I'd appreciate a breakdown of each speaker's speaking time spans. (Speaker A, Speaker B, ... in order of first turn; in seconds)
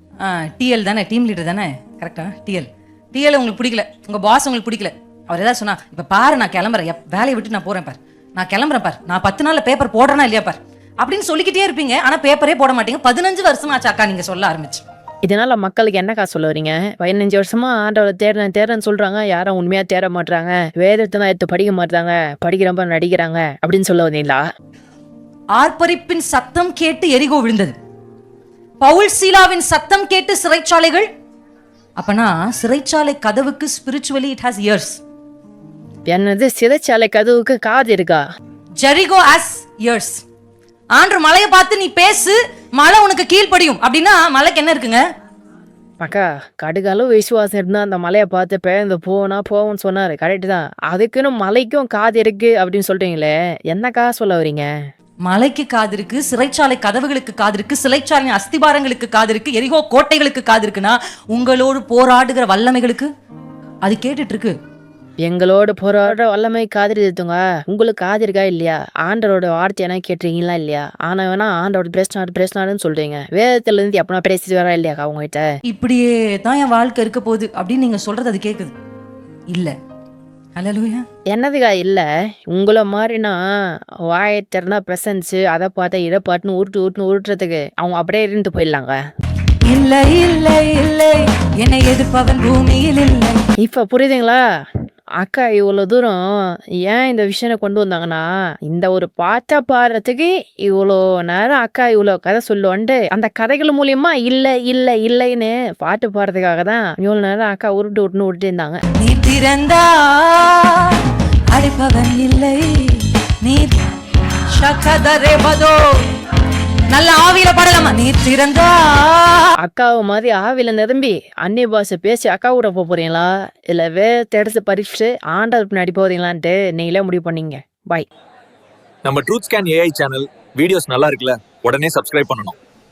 Speaker A: 0.2-14.8, 25.6-27.8, 28.8-31.1, 32.0-35.0, 38.8-40.2, 41.0-45.0, 55.2-63.1, 63.8-64.5, 75.7-78.7, 80.6-81.0, 89.7-93.4, 109.0-111.0, 111.5-113.8, 114.5-116.1, 116.9-119.5
Speaker B: 15.2-24.4, 36.1-38.2, 46.0-54.7, 65.2-75.5, 81.3-89.0, 93.6-94.4, 95.2-108.8, 119.6-128.1
Speaker C: 129.1-132.6